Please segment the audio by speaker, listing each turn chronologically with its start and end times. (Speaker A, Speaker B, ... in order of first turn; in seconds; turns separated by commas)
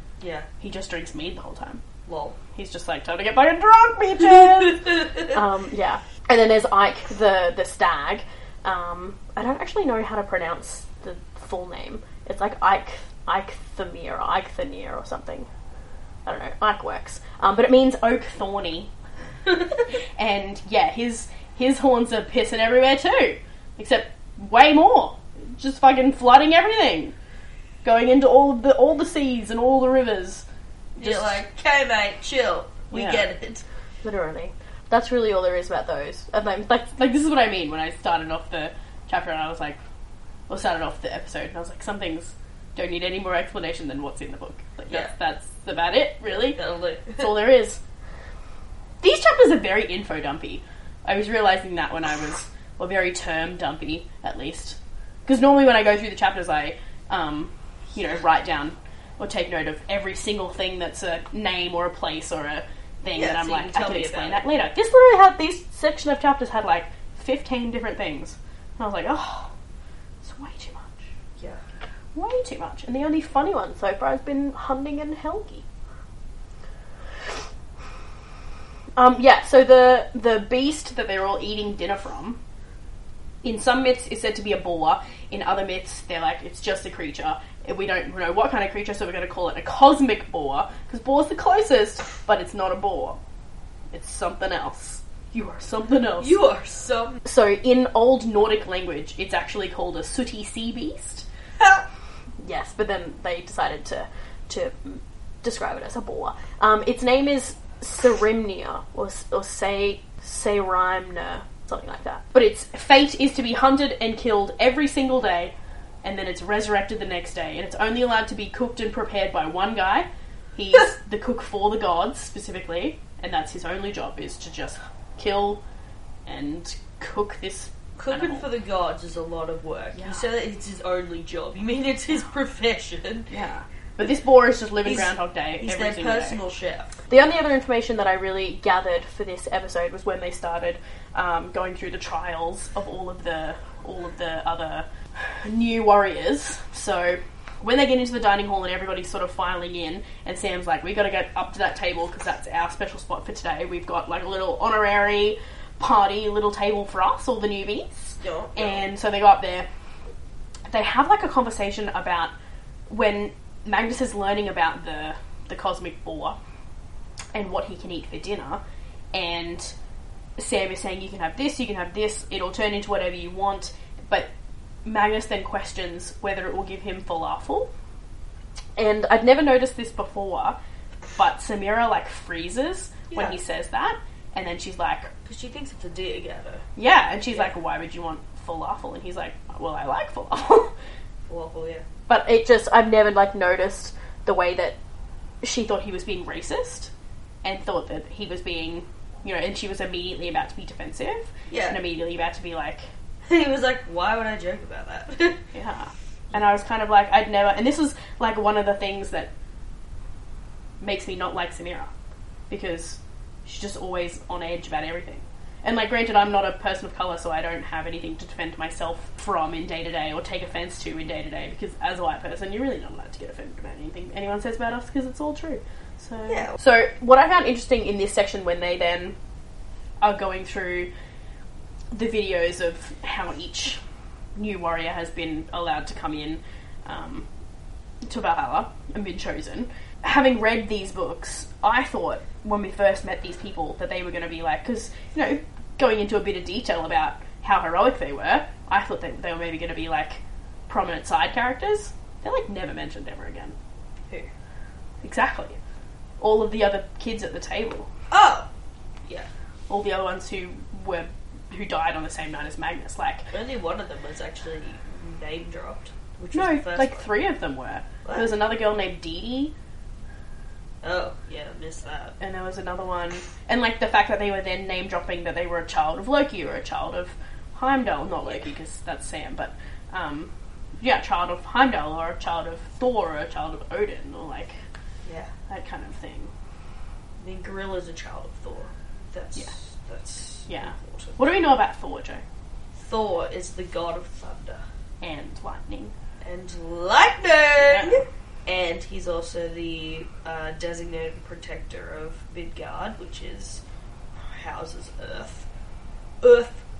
Speaker A: 0.2-0.5, Speaker B: 0.6-1.8, Speaker A: 2.0-2.4, Speaker B: 2.5-15.5, Speaker B: 16.2-18.9, Speaker B: 20.2-27.1, Speaker B: 27.8-30.4, Speaker B: 31.0-31.4, Speaker A: 31.0-33.6, Speaker B: 32.9-33.3, Speaker B: 34.0-39.8, Speaker B: 40.5-46.6, Speaker A: 44.9-45.1, Speaker A: 46.3-47.3, Speaker B: 47.1-47.8, Speaker B: 49.0-69.5, Speaker A: 63.1-64.5, Speaker B: 70.2-71.1, Speaker B: 72.1-75.6, Speaker B: 79.0-82.4, Speaker B: 83.4-93.2, Speaker B: 93.9-96.4, Speaker A: 96.2-97.2, Speaker B: 97.2-101.2, Speaker B: 102.4-125.6, Speaker B: 126.2-128.4, Speaker A: 128.0-133.3, Speaker B: 129.9-130.3, Speaker B: 133.3-136.4, Speaker A: 134.8-136.9, Speaker B: 137.1-159.7, Speaker A: 158.2-158.9, Speaker B: 160.7-162.3, Speaker B: 162.9-166.4, Speaker B: 167.3-168.6, Speaker B: 169.1-169.7, Speaker B: 170.4-174.3, Speaker B: 174.8-177.7, Speaker B: 178.8-180.6, Speaker B: 181.2-185.1, Speaker A: 183.1-183.4, Speaker A: 185.2-186.6, Speaker B: 186.8-190.7, Speaker A: 191.3-191.8, Speaker B: 192.1-194.8, Speaker B: 195.4-196.9, Speaker B: 197.4-202.9, Speaker A: 201.5-201.8, Speaker A: 203.2-205.4, Speaker B: 205.5-209.3, Speaker B: 210.8-211.9, Speaker B: 212.5-229.2, Speaker A: 226.3-226.6, Speaker B: 230.0-230.9, Speaker B: 231.9-233.8, Speaker B: 234.3-237.3, Speaker B: 238.0-253.5, Speaker B: 255.0-255.6, Speaker B: 256.2-257.9, Speaker A: 258.1-258.5, Speaker B: 259.7-263.2, Speaker A: 263.3-267.1, Speaker B: 266.3-269.5, Speaker A: 268.0-268.3, Speaker A: 270.8-272.2, Speaker B: 272.2-284.6, Speaker A: 285.1-285.3, Speaker B: 285.5-286.3, Speaker A: 287.2-291.4, Speaker B: 290.5-292.2, Speaker A: 292.8-294.6, Speaker B: 295.0-295.9, Speaker A: 296.2-303.6, Speaker B: 297.6-298.0, Speaker A: 304.1-305.5, Speaker A: 306.2-306.6